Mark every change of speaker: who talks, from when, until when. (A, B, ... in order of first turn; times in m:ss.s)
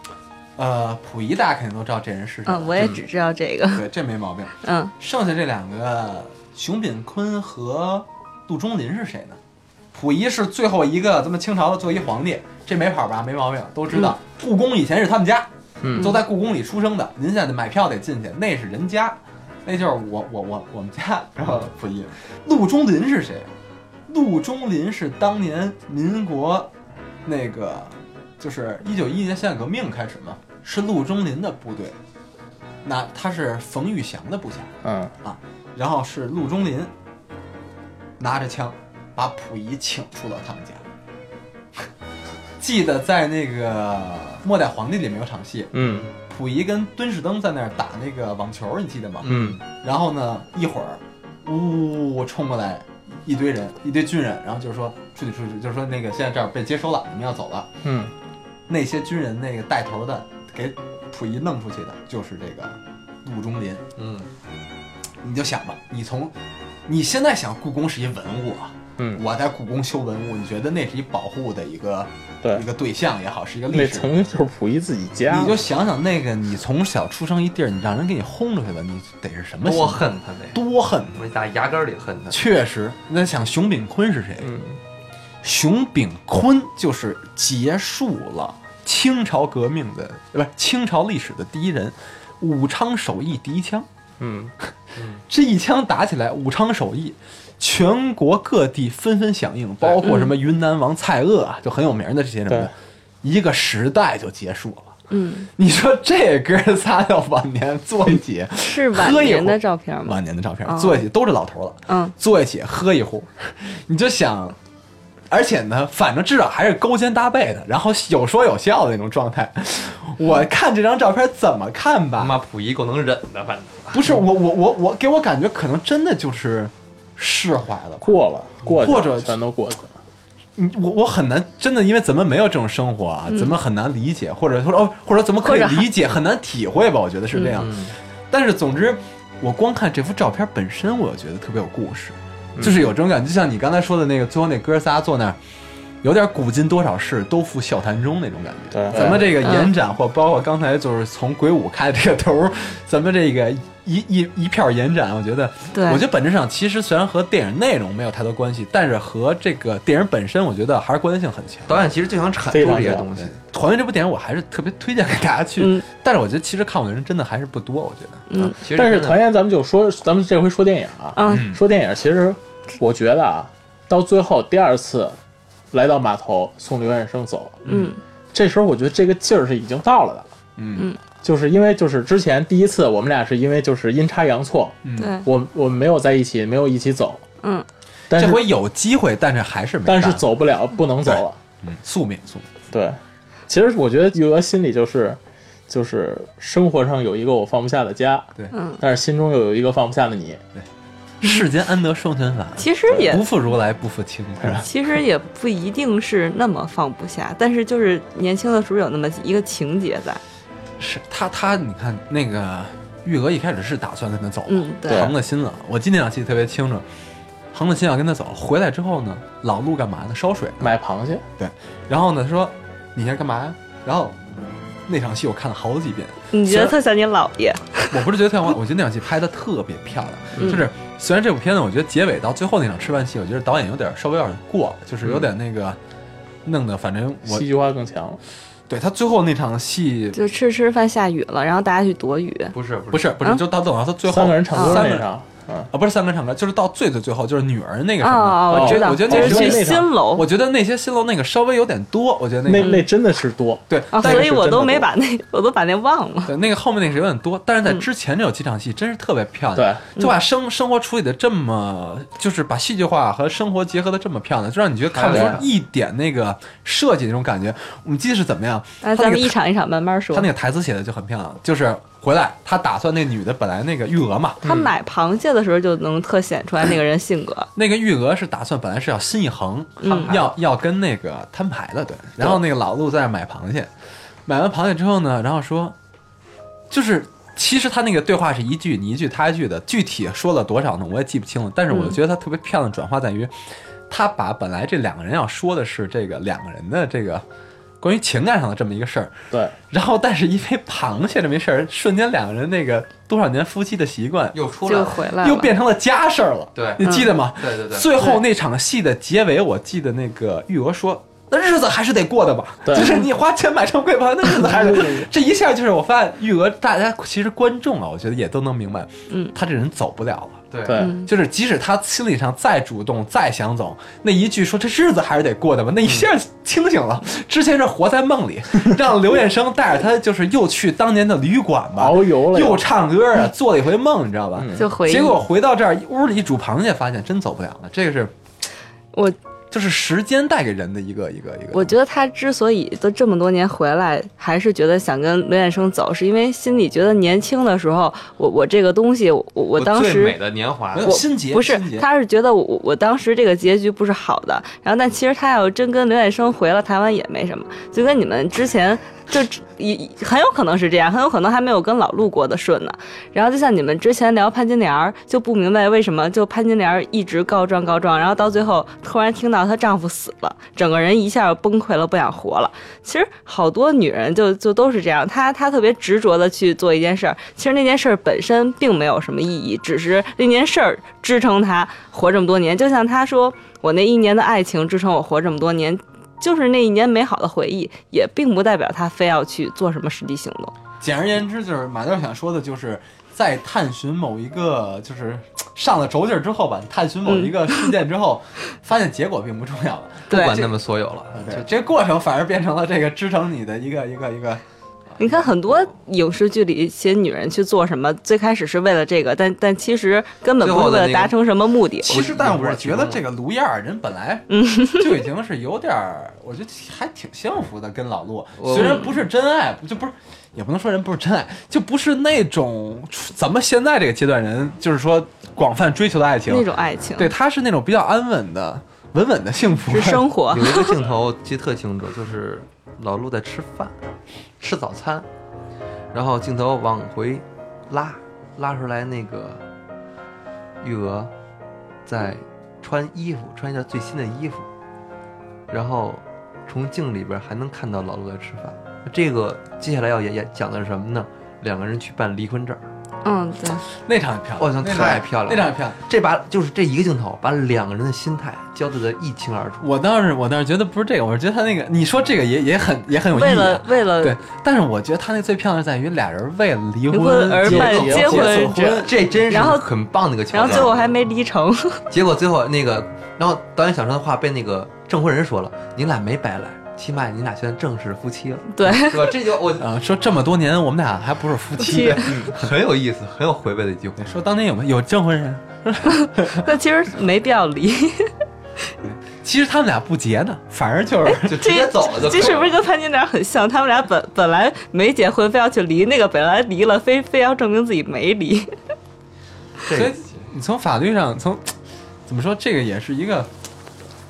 0:00.6-0:03.0 A
0:02.5-0:03.9 B
0:03.7-0:09.4 A
0:04.6-0:04.9 B
0:09.9-0:23.5 A
0:15.8-0:16.1 C
0:24.1-0:26.7 A
0:27.2-0:32.0 A
0:32.8-0:34.7 A
0:34.8-0:35.1 C
0:35.2-0:36.9 A
0:38.2-0:40.9 A
0:42.6-0:57.7 A
0:45.7-0:46.1 C
0:45.8-0:46.1 D
0:49.2-0:49.6 D
0:49.2-0:49.6 C
0:57.8-0:58.1 C
0:58.7-1:03.8 A
1:04.0-1:04.3 D
1:05.2-1:14.1 A
1:13.7-1:15.6 C
1:15.3-1:20.0 A
1:19.6-1:20.6 D
1:20.5-1:21.2 A
1:21.1-1:22.4 D
1:22.3-1:24.5 A
1:24.4-1:24.8 C
1:25.4-1:33.9 A
1:34.2-1:34.5 C
1:35.0-1:35.2 D
1:35.3-1:42.7 A
1:40.0-1:40.3 B
1:43.2-1:45.0 A
1:45.1-1:45.5 B
1:45.6-1:54.6 A
1:48.6-1:51.0 B
1:51.9-1:52.1 B
1:55.3-2:02.4 A
2:02.2-2:04.2 D
2:03.9-2:08.1 A
2:08.0-2:10.0 C
2:08.6-2:09.4 A
2:10.6-2:25.4 A
2:13.3-2:13.6 B
2:15.4-2:15.9 B
2:17.6-2:18.0 D
2:22.6-2:22.8 C
2:26.0-2:41.9 A
2:28.7-2:29.4 C
2:29.2-2:29.7 B
2:35.7-2:36.0 B
2:41.7-2:43.4 D
2:42.5-2:43.1 C
2:43.2-2:48.3 A
2:45.6-2:45.8 B
2:48.3-2:48.6 B
2:48.4-2:49.2 D
2:48.7-2:55.2 C
2:51.2-2:51.5 B
2:51.3-2:51.6 A
2:55.7-2:57.6 C
2:57.7-2:57.9 A
2:57.7-2:58.0 B
2:58.3-3:00.3 C
3:00.6-3:00.9 A
3:01.2-3:07.2 C
3:04.8-3:05.2 A
3:05.0-3:05.3 B
3:08.1-3:08.4 C
3:08.1-3:10.2 A
3:09.9-3:11.4 C
3:11.0-3:12.5 A
3:12.7-3:20.4 C
3:18.5-3:18.8 B
3:21.2-3:24.7 A
3:22.6-3:23.3 B
3:24.6-3:30.2 B
3:30.8-3:36.8 A
3:34.5-3:35.1 B
3:34.9-3:35.1 C
3:37.5-3:40.7 A
3:40.6-3:41.2 C
3:41.4-3:44.2 A
3:44.9-3:46.8 A
3:46.3-3:48.1 B
3:47.9-3:55.8 A
3:50.4-3:50.7 B
3:56.4-3:57.5 A
3:57.3-3:58.2 C
3:58.7-4:00.2 A
4:00.2-4:02.6 B
4:02.5-4:03.2 D
4:02.9-4:05.1 A
4:04.1-4:05.7 C
4:04.5-4:04.8 B
4:05.7-4:12.8 A
4:08.0-4:10.3 B
4:08.5-4:09.9 C
4:12.5-4:14.8 C
4:12.6-4:12.8 B
4:13.7-4:14.8 A
4:13.9-4:16.3 B
4:16.3-4:29.4 A
4:19.6-4:19.8 C
4:24.9-4:25.5 D
4:25.1-4:25.4 C
4:28.8-4:30.3 B
4:30.1-4:34.4 A
4:34.4-4:34.7 C
4:34.4-4:37.5 B
4:37.6-4:43.7 A
4:39.8-4:40.2 B
4:39.9-4:40.3 D
4:44.3-4:45.8 A
4:46.7-4:53.3 A
4:51.7-4:52.0 B
4:53.9-4:57.2 A
4:57.8-5:04.4 A
4:59.3-4:59.6 C
5:04.3-5:05.1 D
5:04.6-5:05.5 B
5:05.2-5:38.2 A
5:06.6-5:07.9 D
5:06.8-5:07.1 B
5:12.7-5:13.0 C
5:12.7-5:13.0 B
5:14.5-5:15.1 C
5:20.5-5:20.9 D
5:20.6-5:21.0 C
5:20.8-5:21.1 B
5:31.8-5:32.6 C
5:34.4-5:34.7 C
5:34.6-5:35.2 B
5:39.5-5:41.8 A
5:41.5-5:50.2 B
5:49.6-5:51.0 D
5:50.7-5:51.9 A
5:50.8-6:30.5 B
6:30.8-6:40.5 A
6:37.1-6:37.6 B
6:40.1-6:40.5 B
6:40.1-6:41.5 D
6:41.1-6:45.3 A
6:45.0-6:52.0 B
6:50.4-6:51.2 D
6:51.8-7:10.1 A
6:51.8-6:53.0 D
6:54.3-6:55.0 B
6:58.4-6:58.9 D
6:58.5-6:58.9 B
7:06.3-7:07.1 B
7:09.7-7:10.8 B
7:10.3-7:13.8 D
7:14.4-7:15.1 D
7:15.9-7:19.4 D
7:20.6-7:21.1 D
7:21.8-7:24.5 D
7:25.5-7:32.7 D
7:33.0-7:33.6 B
7:33.8-7:35.8 A
7:34.4-7:39.7 D
7:39.6-7:49.5 A
7:43.1-7:44.2 B
7:46.9-7:49.7 B
7:47.4-7:48.3 C
7:47.5-7:50.9 D
7:50.3-7:51.8 B
7:51.9-7:59.7 D
7:58.6-7:59.2 B
7:59.6-8:02.4 A
8:01.6-8:02.3 B
8:01.7-8:04.0 D
8:04.0-8:06.5 A
8:05.9-8:08.1 B
8:08.8-8:11.6 A
8:11.0-8:18.5 B
8:11.2-8:12.6 D
8:19.7-8:20.3 D
8:19.7-8:21.5 A
8:22.1-8:23.3 A